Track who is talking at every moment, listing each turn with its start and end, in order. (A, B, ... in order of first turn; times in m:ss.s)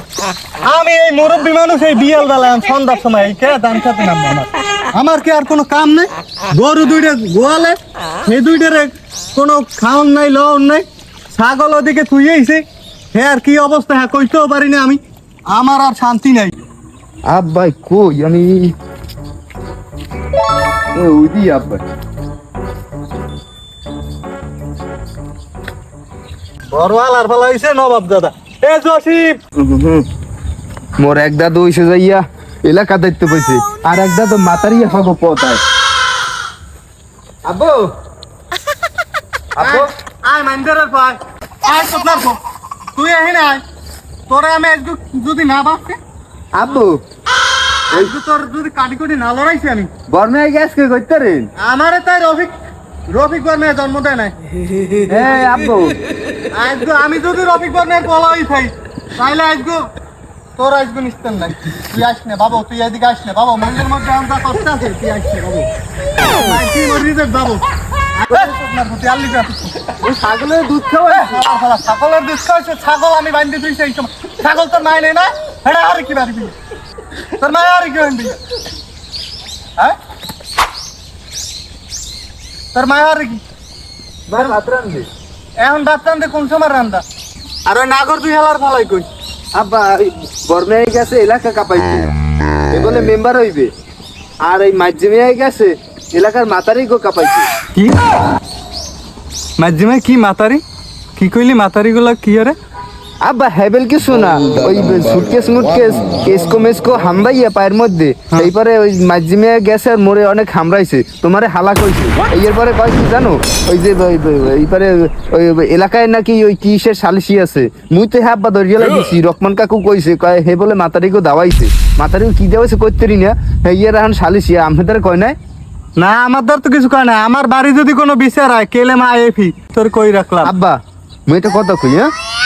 0:00.6-0:16.5 A
0:17.3-0:18.7 B
0:20.9-0:21.8 B
0:26.7-0:29.4 A
0:29.6-0:30.1 B
0:31.0-0:35.6 B
0:37.4-0:37.9 B
0:39.6-0:39.9 B
0:39.6-0:42.4 A
0:43.0-0:43.6 A
0:44.3-0:46.0 A
0:46.6-0:47.0 B
0:47.9-0:49.9 A
0:50.1-0:51.5 B
0:51.6-0:52.5 A
0:53.1-0:54.4 A
0:55.1-0:56.0 B
0:56.5-0:59.9 A
1:00.6-1:05.7 A
1:06.3-1:07.6 A
1:08.2-1:09.9 A
1:10.0-1:11.5 B
1:11.1-1:16.6 A
1:17.4-1:18.4 A
1:22.7-1:23.4 A
1:24.3-1:25.1 B
1:25.6-1:27.0 A
1:27.7-1:29.1 A
1:29.5-1:32.1 B
1:32.7-1:33.7 B
1:34.4-1:37.5 B
1:39.6-1:40.6 A
1:41.2-1:42.6 A
1:43.2-2:05.4 B
2:06.0-2:10.5 A
2:10.4-2:12.1 B